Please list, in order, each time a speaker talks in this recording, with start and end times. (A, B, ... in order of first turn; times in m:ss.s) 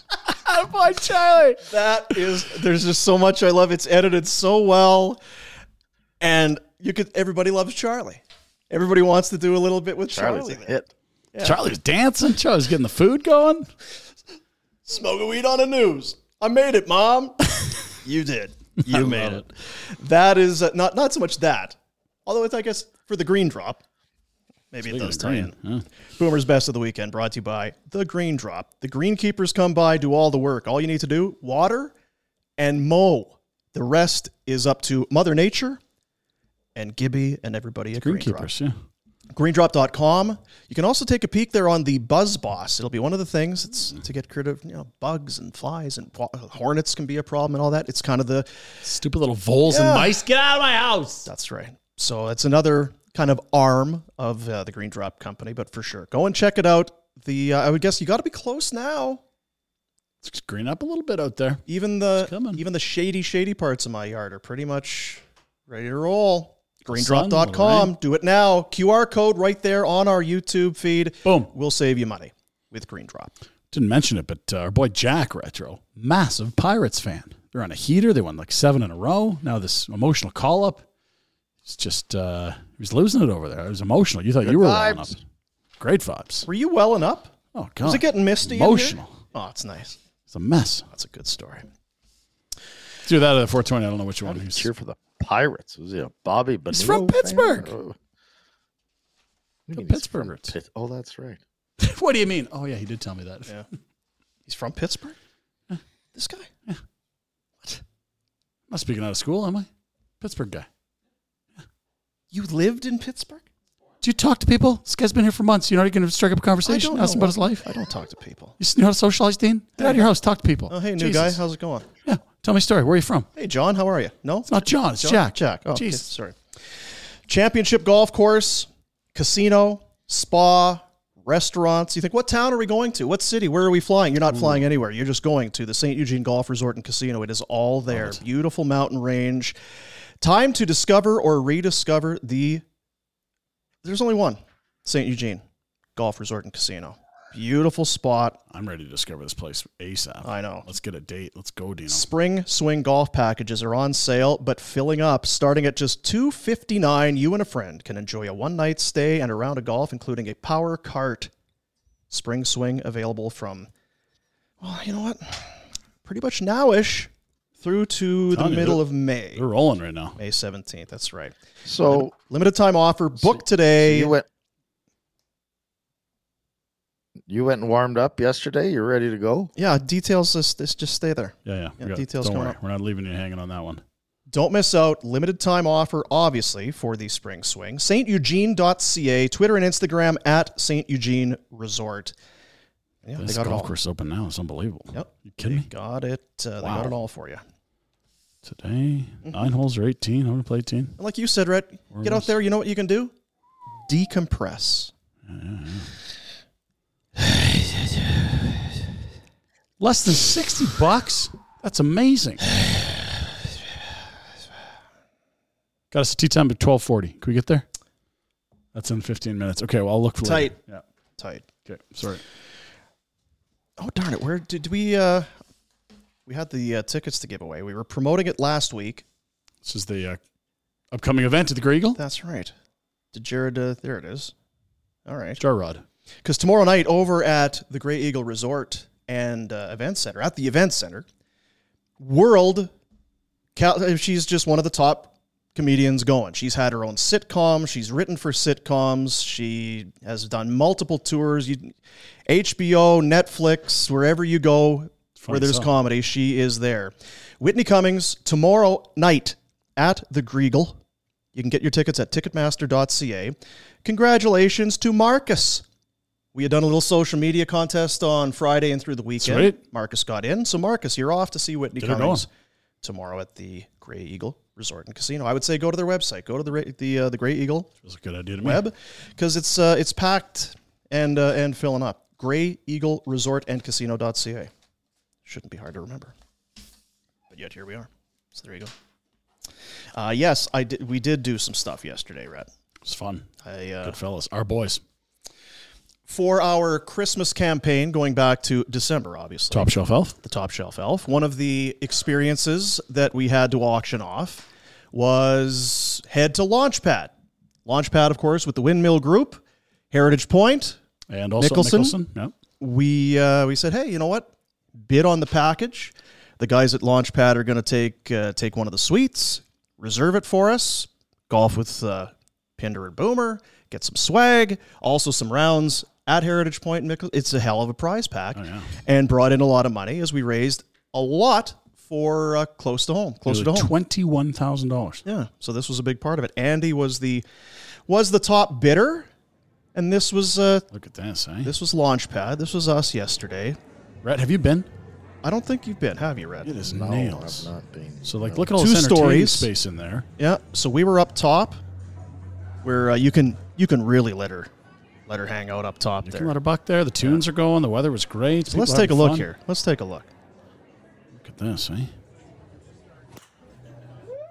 0:00.3-0:01.6 A
0:01.7-0:05.2 B
0:06.2-0:10.7 B
0:10.1-0:10.9 C
0:11.3-0:11.6 B
0:11.4-0:13.7 A
0:14.9-0:17.4 B
0:18.0-0:23.8 B
0:18.8-0:19.5 A
0:24.7-0:25.6 B
0:24.8-0:25.8 A
0:26.2-0:31.9 B
0:32.6-0:35.8 B
0:36.8-0:38.5 B
0:38.0-0:38.8 A
0:39.3-0:48.5 B
0:48.8-0:51.3 A
0:49.7-0:50.2 B
0:51.2-0:59.2 B
1:00.2-1:01.6 A
1:01.7-1:13.3 B
1:02.2-1:02.6 A
1:06.9-1:08.0 A
1:11.2-1:11.5 A
1:13.7-1:20.8 A
1:21.6-1:25.2 A
1:24.4-1:25.1 C
1:25.8-1:26.5 A
1:26.5-1:30.0 B
1:27.6-1:29.2 A
1:30.3-1:30.9 A
1:30.9-1:31.7 B
1:33.0-1:34.7 A
1:34.3-1:38.0 C
1:36.7-1:37.7 A
1:39.7-1:41.4 C
1:39.7-1:40.5 A
1:41.8-1:43.5 A
1:44.5-1:45.2 B
1:46.2-1:46.5 B
1:48.7-1:49.7 A
1:50.2-1:50.7 A
1:52.3-1:53.5 B
1:54.0-1:57.7 A
1:56.6-1:58.6 B
1:58.6-2:01.4 A
1:59.8-2:00.1 B
2:00.7-2:01.9 B
2:02.0-2:03.3 A
2:03.4-2:06.4 B
2:04.5-2:06.1 A
2:07.3-2:19.6 B
2:14.3-2:14.6 A
2:17.9-2:18.2 A
2:20.2-2:22.6 B
2:23.8-2:25.4 B
2:26.0-2:28.4 B
2:28.5-2:32.1 A
2:30.2-2:30.7 B
2:31.9-2:41.3 B
2:42.1-2:43.7 B
2:44.6-2:49.4 B
2:48.3-2:48.8 A
2:49.4-2:50.2 A
2:50.2-2:51.4 B
2:51.7-2:52.1 C
2:51.9-2:54.2 B
2:53.8-2:54.3 C
2:57.3-2:59.5 C
2:59.6-3:02.6 B
3:01.4-3:03.8 A
3:04.3-3:12.1 B
3:13.0-3:13.7 B
3:13.2-3:15.7 A
3:14.9-3:17.4 B
3:16.6-3:17.0 A
3:18.4-3:21.0 A
3:19.2-3:19.5 B
3:21.0-3:23.1 B
3:21.9-3:22.3 A
3:23.9-3:24.9 B
3:25.2-3:25.9 A
3:27.2-3:27.7 B
3:29.8-3:32.4 A
3:35.9-3:37.7 A
3:38.7-3:40.8 A
3:40.2-3:40.6 B
3:41.2-3:41.5 B
3:41.6-3:42.2 A
3:43.8-3:45.3 B
3:46.3-3:49.0 B
3:49.6-3:50.2 A
3:50.9-3:52.0 A
3:52.0-3:52.5 B
3:53.1-3:54.3 B
3:55.1-3:55.4 B
3:55.4-3:55.8 A
3:56.2-4:01.1 B
4:02.0-4:02.7 B
4:03.6-4:11.7 B
4:12.3-4:20.8 B
4:15.2-4:15.7 A
4:21.4-4:25.6 B
4:26.3-4:32.3 B
4:29.2-4:29.6 A
4:31.8-4:32.3 A
4:32.8-4:37.7 B
4:37.8-4:38.6 A
4:38.4-4:44.5 B
4:45.2-4:46.1 B
4:47.3-4:48.7 B
4:50.0-4:52.5 B
4:52.8-4:53.3 A
4:53.4-4:54.0 B
4:53.8-4:54.8 A
4:56.1-5:07.1 B
4:59.5-5:00.2 A
5:07.6-5:10.8 B
5:11.1-5:12.3 A
5:11.4-5:12.0 B
5:12.6-5:33.7 B
5:28.4-5:28.7 A
5:33.3-5:35.0 A
5:35.0-5:37.2 B
5:37.9-5:39.1 B
5:39.8-5:40.7 B
5:40.7-5:41.5 A
5:41.4-5:43.6 B
5:44.0-5:44.7 A
5:45.2-5:46.5 B
5:46.4-5:47.5 A
5:46.7-5:48.5 C
5:48.0-5:50.1 A
5:48.6-5:49.5 B
5:50.2-5:51.6 B
5:52.6-5:54.5 B
5:55.1-5:56.4 B
5:56.0-5:59.3 A
5:58.5-6:00.1 B
6:01.1-6:01.9 A